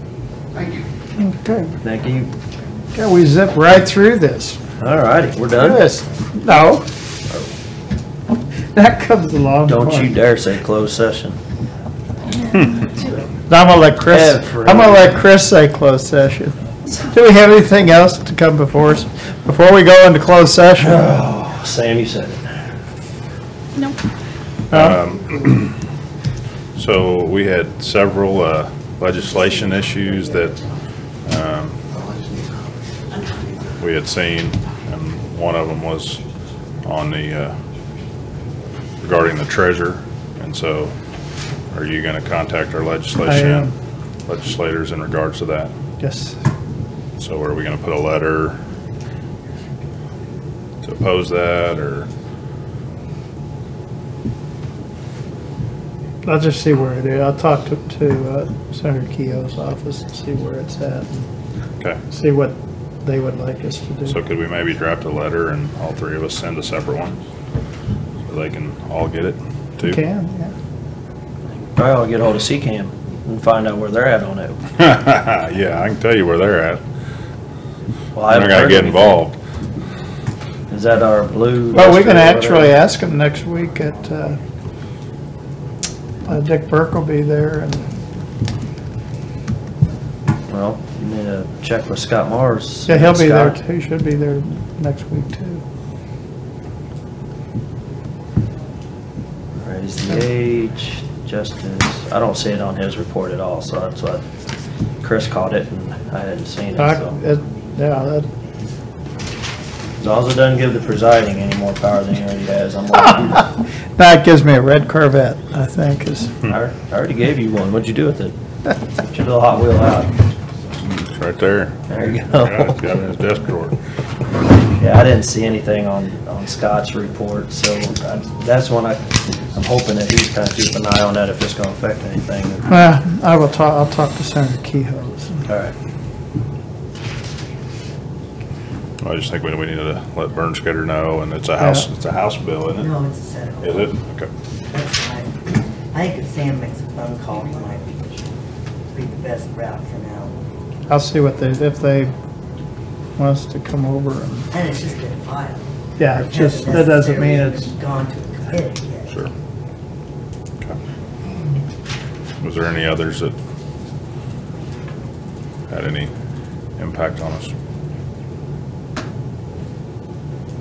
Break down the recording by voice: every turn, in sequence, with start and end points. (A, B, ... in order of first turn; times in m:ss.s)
0:01.2-0:01.7 A
0:01.8-0:02.3 B
0:02.9-0:04.6 A
0:04.8-0:05.8 B
0:05.6-0:06.8 A
0:08.7-0:10.1 A
0:09.6-0:11.4 B
0:13.5-0:21.0 A
0:14.1-0:15.0 B
0:20.8-0:22.4 B
0:24.7-0:25.0 A
0:24.7-0:25.7 C
0:26.8-0:30.6 C
0:31.2-0:31.8 C
0:33.8-0:36.2 C
0:36.8-0:37.5 C
0:39.0-0:40.9 C
0:41.7-0:43.7 C
0:43.2-0:43.7 A
0:44.3-0:45.7 C
0:46.0-0:46.4 A
0:47.2-0:48.6 C
0:50.8-0:52.1 C
0:56.2-1:01.2 A
1:02.1-1:04.2 A
1:04.1-1:07.2 C
1:08.3-1:10.0 C
1:09.8-1:10.5 A
1:11.8-1:14.6 B
1:14.8-1:16.8 C
1:18.1-1:19.2 B
1:18.3-1:19.4 C
1:20.7-1:22.8 B
1:21.7-1:24.4 A
1:26.2-1:27.9 A
1:30.5-1:33.6 B
1:32.9-1:35.6 A
1:39.6-1:44.2 B
1:45.0-1:47.2 B
1:46.8-1:48.3 A
1:50.0-1:53.5 B
1:54.0-1:56.3 A
1:56.4-1:58.4 B
1:58.9-2:00.1 B
2:00.8-2:01.8 C
2:01.9-2:02.7 B
2:02.3-2:03.8 C
2:04.8-2:12.7 B
2:12.7-2:15.4 A
2:15.5-2:15.7 B
2:19.0-2:22.9 C
2:22.7-2:23.9 D
2:23.6-2:24.3 C
2:24.7-2:28.2 D
2:28.9-2:30.4 D
2:30.9-2:32.1 A
2:33.2-2:34.5 A
2:34.5-2:39.1 D
2:36.0-2:37.7 A
2:42.4-2:43.4 C
2:45.7-2:46.1 C
2:46.8-2:47.5 C